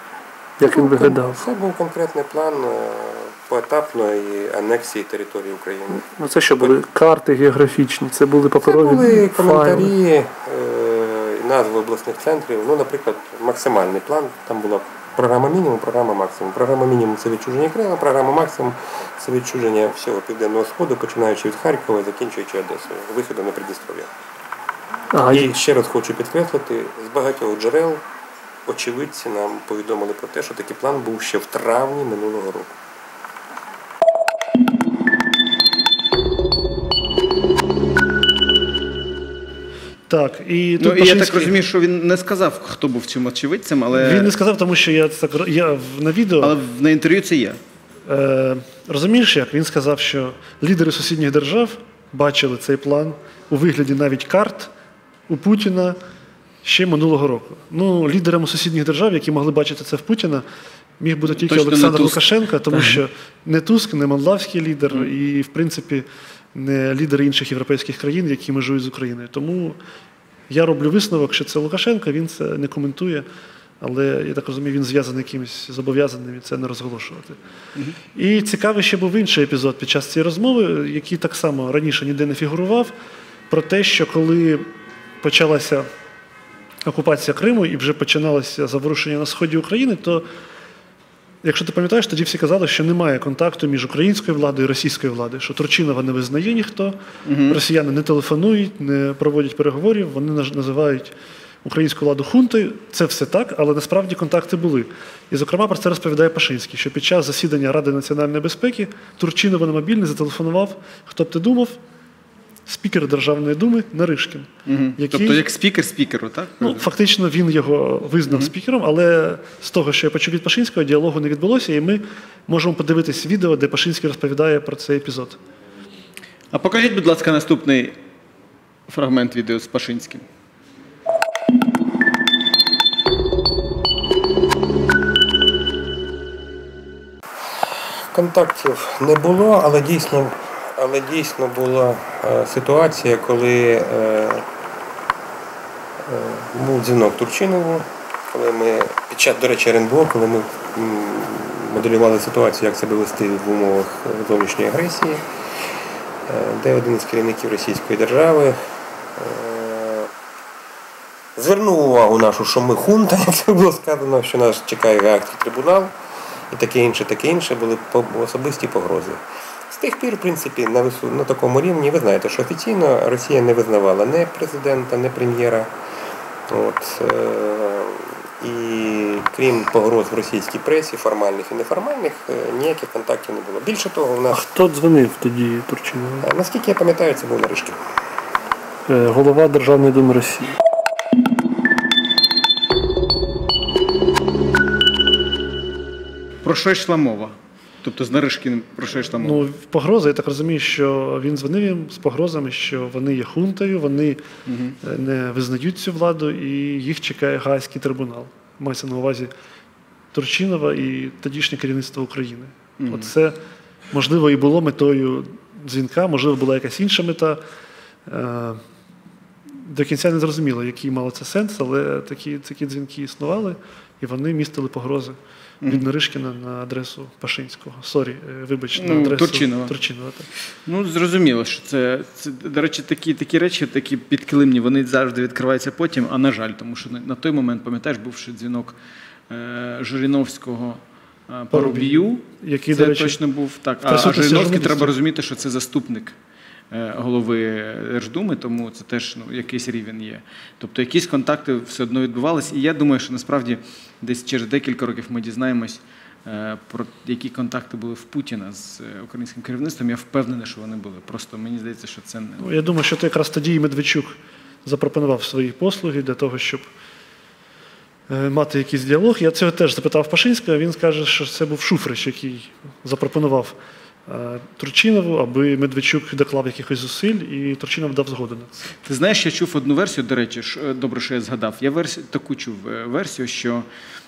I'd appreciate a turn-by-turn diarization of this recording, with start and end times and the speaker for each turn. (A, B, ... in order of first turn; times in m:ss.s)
0:00.6-0:01.4 A
0:00.6-0:06.1 B
0:05.9-0:09.9 A
0:08.6-0:24.1 B
0:25.1-0:25.6 A
0:25.3-0:28.0 B
0:28.6-0:32.8 B
0:40.1-0:41.5 A
0:40.8-0:44.3 C
0:43.9-0:46.6 A
0:46.4-0:47.6 C
0:48.1-0:54.7 A
0:55.3-0:56.0 A
0:56.6-1:00.4 A
1:01.0-1:09.8 A
1:01.3-1:03.0 C
1:10.5-1:13.2 A
1:13.8-1:17.4 A
1:18.1-1:22.9 A
1:23.5-1:24.7 A
1:25.2-1:25.9 A
1:26.9-1:30.2 A
1:31.4-1:37.0 A
1:37.2-1:37.6 C
1:37.5-1:51.8 A
1:52.6-1:55.4 A
1:54.6-1:56.9 C
1:56.6-2:05.4 A
2:06.5-2:08.0 C
2:08.9-2:10.2 C
2:18.0-2:24.4 B
2:26.0-2:35.2 B
2:36.3-2:38.6 B
2:39.2-2:40.1 B
2:41.4-2:45.9 B
2:46.5-2:55.7 B
2:56.5-3:04.5 B
3:04.3-3:06.2 A
3:06.2-3:07.8 B
3:08.9-3:10.5 A
3:16.4-3:19.4 C
3:19.2-3:24.2 A
3:24.5-3:24.8 C
3:24.8-3:29.3 A
3:30.1-3:33.4 A
3:32.8-3:33.1 C
3:33.9-3:37.4 A
3:38.1-3:38.6 A
3:39.6-3:50.3 A
3:48.8-3:49.7 C
3:50.6-3:58.8 C
3:59.3-4:06.1 C
4:01.5-4:03.2 A
4:03.8-4:04.9 A
4:06.7-4:22.5 C
4:22.4-4:26.7 A
4:28.1-4:33.6 A
4:34.1-4:38.6 A
4:38.8-4:43.6 C